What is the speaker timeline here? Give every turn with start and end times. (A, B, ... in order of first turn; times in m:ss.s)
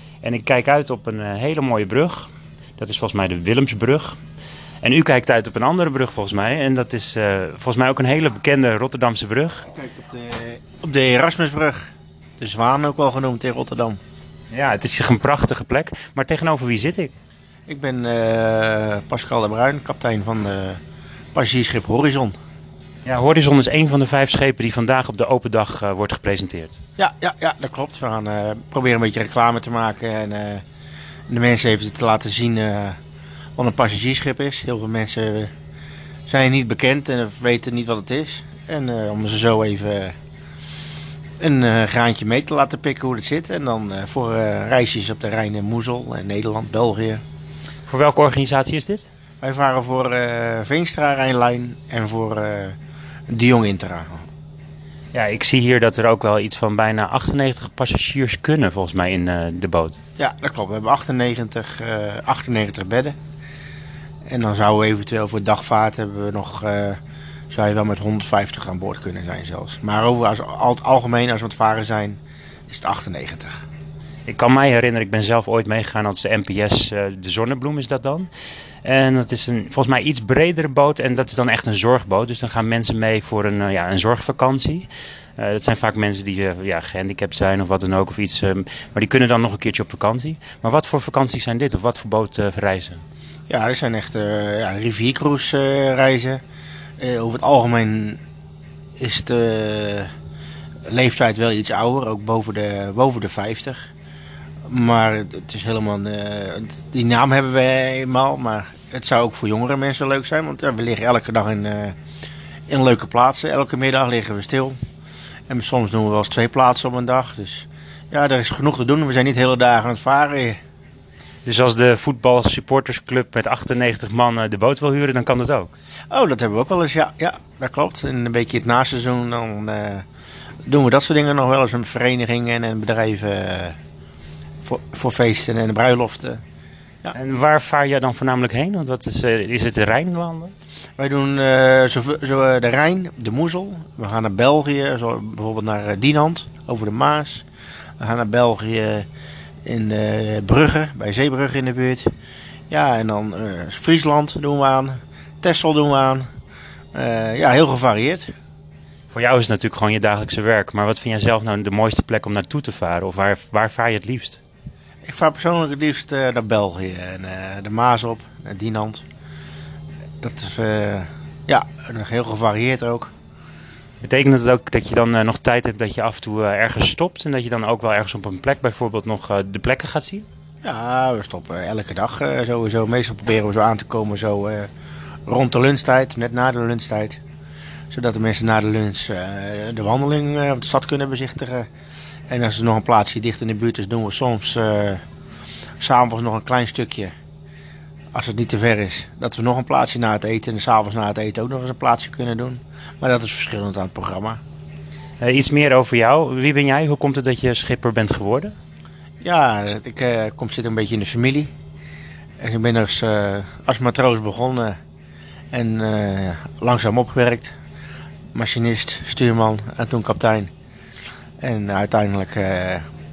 0:00.2-0:04.2 A
0:04.8-0:09.6 A
0:09.7-0:14.0 B
0:14.5-0:17.1 A
0:17.7-0:20.8 B
0:21.3-0:22.4 B
0:23.0-0:26.7 A
0:27.0-0:30.6 B
0:31.3-0:33.0 B
0:33.6-0:35.5 B
0:36.3-0:40.1 B
0:41.4-0:47.2 B
0:47.8-0:49.1 A
0:49.4-0:52.7 B
0:53.3-0:54.2 B
0:55.1-1:00.0 A
1:00.2-1:03.2 B
1:04.3-1:07.0 B
1:07.5-1:13.6 B
1:14.3-1:18.3 A
1:18.8-1:24.9 A
1:25.4-1:33.0 A
1:33.5-1:36.4 B
1:37.0-1:38.2 B
1:39.0-1:40.1 B
1:40.9-1:43.9 B
1:44.7-1:51.9 B
1:52.7-1:54.8 B
1:55.5-2:00.6 B
2:01.4-2:05.7 A
2:06.1-2:10.0 B
2:10.6-2:13.8 B
2:14.6-2:16.4 B
2:17.1-2:20.5 A
2:21.0-2:27.4 B
2:28.0-2:29.0 B
2:29.6-2:32.1 B
2:32.7-2:36.3 B
2:36.9-2:38.3 B
2:39.1-2:44.4 A
2:45.0-2:49.0 B
2:50.2-2:53.1 B
2:54.0-3:00.2 A
3:00.6-3:04.7 B
3:05.3-3:07.2 B
3:07.9-3:11.7 B
3:12.3-3:15.0 B
3:15.8-3:17.1 B
3:18.1-3:24.4 B
3:25.2-3:28.5 A
3:29.2-3:31.5 B
3:32.4-3:34.8 B
3:35.5-3:37.6 B
3:38.3-3:40.5 B
3:41.4-3:42.8 B